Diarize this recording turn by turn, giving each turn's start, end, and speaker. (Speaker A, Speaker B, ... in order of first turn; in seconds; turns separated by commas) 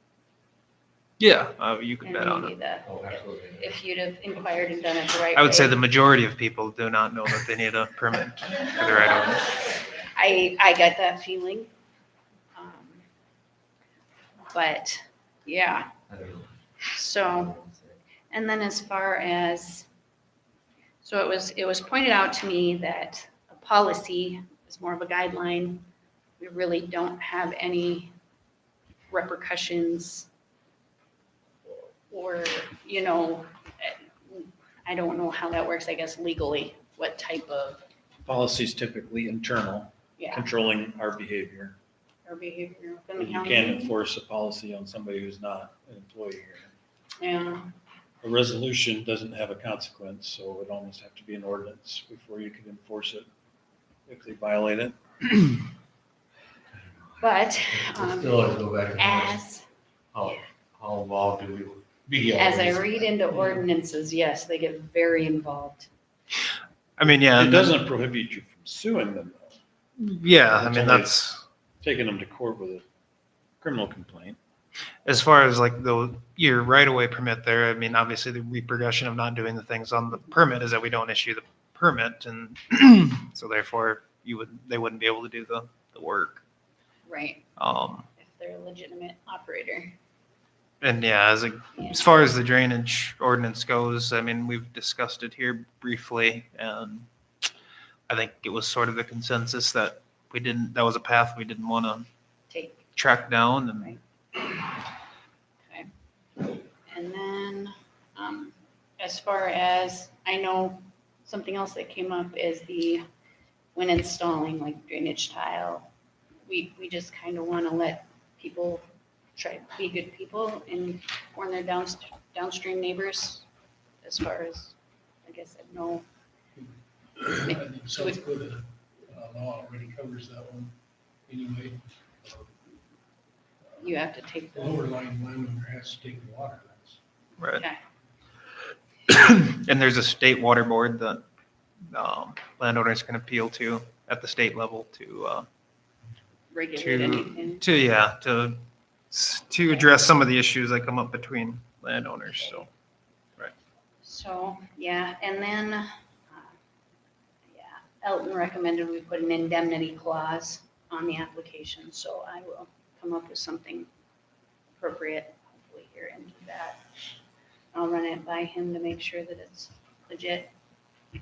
Speaker A: 1.2-2.5, Speaker B: 2.0-5.8, Speaker C: 2.8-3.7, Speaker A: 5.3-9.4, Speaker B: 10.1-11.7, Speaker B: 12.5-13.0, Speaker B: 14.5-15.9, Speaker C: 16.1-16.5, Speaker B: 16.9-17.5, Speaker C: 17.2-18.0, Speaker B: 18.3-19.9, Speaker B: 21.0-25.9, Speaker B: 26.4-28.1, Speaker B: 29.1-30.3, Speaker B: 31.7-37.8, Speaker D: 38.2-41.8, Speaker B: 40.2-40.5, Speaker B: 42.2-43.9, Speaker D: 43.1-46.7, Speaker B: 47.2-47.7, Speaker D: 48.2-53.2, Speaker D: 54.1-55.7, Speaker C: 56.7-59.4, Speaker B: 57.2-59.6, Speaker C: 60.1-63.1, Speaker B: 62.3-65.9, Speaker A: 67.0-67.8, Speaker D: 67.2-69.6, Speaker A: 70.0-71.4, Speaker D: 70.5-71.1, Speaker D: 71.8-72.8, Speaker D: 73.6-74.4, Speaker A: 75.0-86.4, Speaker B: 87.0-87.5, Speaker A: 87.6-88.0, Speaker B: 88.2-89.9, Speaker A: 90.8-97.1, Speaker A: 98.1-102.1, Speaker B: 102.5-102.8, Speaker A: 102.9-104.0, Speaker B: 106.4-113.0, Speaker B: 113.7-115.9, Speaker B: 116.5-118.8, Speaker B: 119.3-123.5, Speaker B: 124.0-126.0, Speaker E: 126.5-130.7, Speaker B: 127.5-128.2, Speaker E: 131.3-132.5, Speaker B: 133.8-134.8, Speaker E: 134.5-137.0, Speaker A: 137.4-137.6, Speaker A: 139.1-141.2, Speaker A: 141.9-145.4, Speaker B: 146.5-147.6, Speaker A: 146.8-148.6, Speaker A: 149.1-152.7, Speaker B: 154.0-156.5, Speaker B: 157.5-163.9, Speaker B: 164.8-166.8, Speaker B: 167.7-170.5